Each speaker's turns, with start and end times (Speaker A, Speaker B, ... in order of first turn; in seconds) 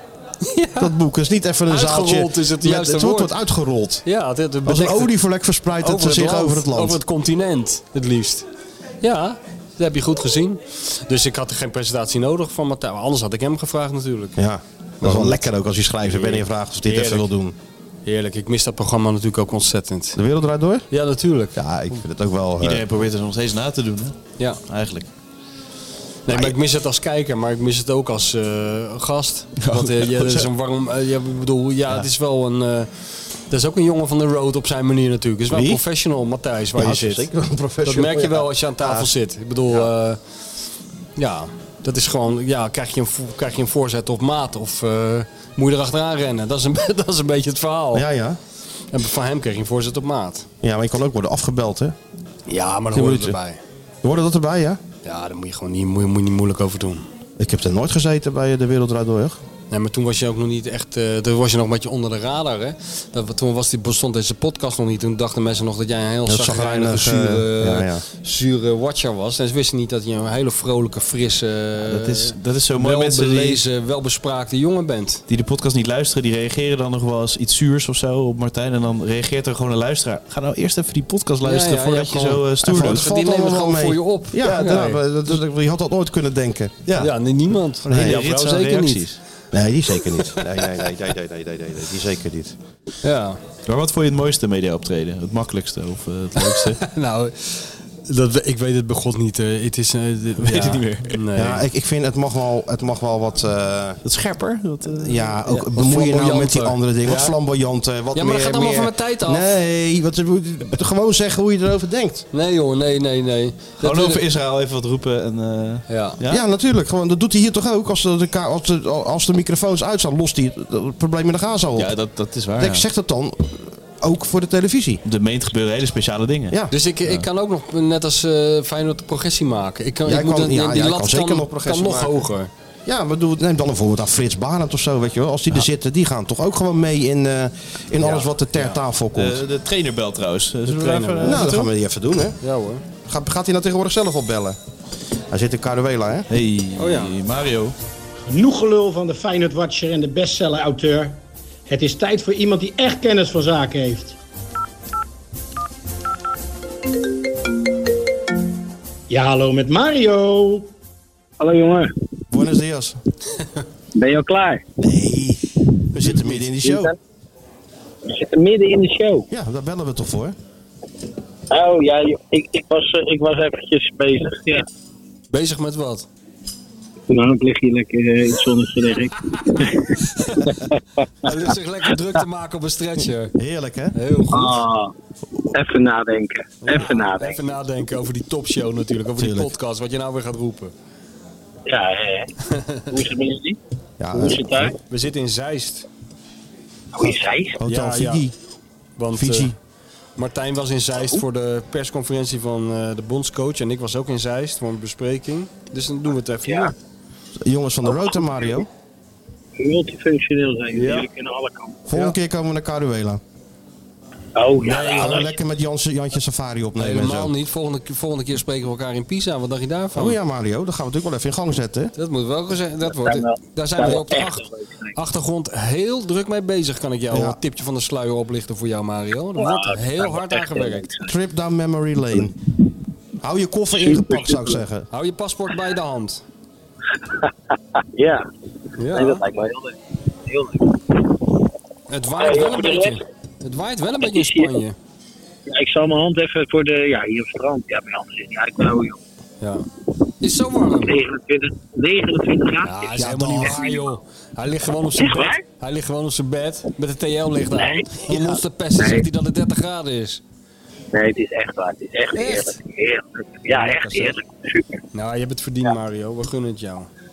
Speaker A: 0.4-0.9, 1.7-3.3, 4.0-5.1, 5.8-8.5, 9.0-14.4, 15.0-15.5, 16.1-17.3, 18.1-20.2, 20.9-21.6, 26.3-37.2, 37.9-40.2, 41.2-48.1, 48.9-50.5, 52.5-53.6, 55.0-57.1, 59.7-75.2, 81.4-85.0, 87.0-89.0, 93.0-93.4, 96.4-101.6, 105.5-107.4, 108.1-109.5, 112.3-114.2, 115.9-116.2, 126.7-132.5, 138.0-138.8, 140.7-141.5, 142.4-142.8, 146.8-147.1, 175.3-176.1, 180.1-180.5, 181.2-183.3, 183.9-184.6, 186.6-190.7, 192.5-192.9, 194.9-195.9, 197.7-198.2, 199.0-199.5, 200.2-206.7, 210.8-211.1, 214.6-215.3, 216.8-220.2, 221.9-230.9, 234.9-236.2, 238.8-239.2, 241.9-244.8, 249.4-249.7, 250.2-251.0, 252.6-260.2, 262.1-262.6, 263.5-264.2, 264.9-266.9
Speaker B: 0.8-4.0, 4.7-7.0, 14.4-17.6, 20.1-20.9, 21.6-22.8, 26.3-26.5, 35.5-35.8, 36.8-39.1, 47.9-48.4, 50.6-52.0, 52.9-53.4, 54.0-54.8, 57.4-59.4, 66.3-68.0, 82.6-87.1, 87.8-88.2, 89.5-92.5, 101.4-104.0, 105.0-112.3, 116.3-121.9, 122.6-125.0, 130.1-132.2, 132.9-139.4, 141.2-142.4, 143.1-144.6, 145.3-146.3, 162.3-163.0, 164.8-166.9, 169.3-170.3, 183.4-183.9, 189.2-189.5, 194.0-194.7, 197.6-198.3, 199.1-199.6, 207.4-208.7, 211.9-213.2, 214.8-217.3, 219.9-221.9, 227.1-227.4, 231.0-232.3, 233.2-234.9, 253.0-253.6
Speaker C: 22.6-25.1, 29.6-30.5, 71.8-73.6, 75.3-83.0, 87.9-89.2, 93.7-96.8, 100.4-101.2, 104.0-105.3, 113.8-116.4, 121.8-122.8, 125.0-127.3, 139.2-141.7, 146.3-147.7
Speaker D: 148.3-154.2, 159.1-160.7
Speaker E: 161.4-161.9, 163.9-164.6, 166.6-167.0, 168.1-169.3, 171.5-174.7, 177.1-179.9, 180.5-181.3, 184.3-184.9, 185.5-187.4, 191.7-192.3, 192.9-193.6, 194.1-194.8, 196.9-197.6, 206.5-206.7, 207.9-208.5, 209.6-211.8, 214.4-215.4, 222.9-224.9, 229.4-231.2, 233.8-234.6, 237.1-238.3, 238.8-241.2, 242.2-243.0, 244.0-244.5, 245.5-249.0, 250.8-253.8, 255.0-255.4, 257.6-257.9, 258.8-259.1, 260.9-264.8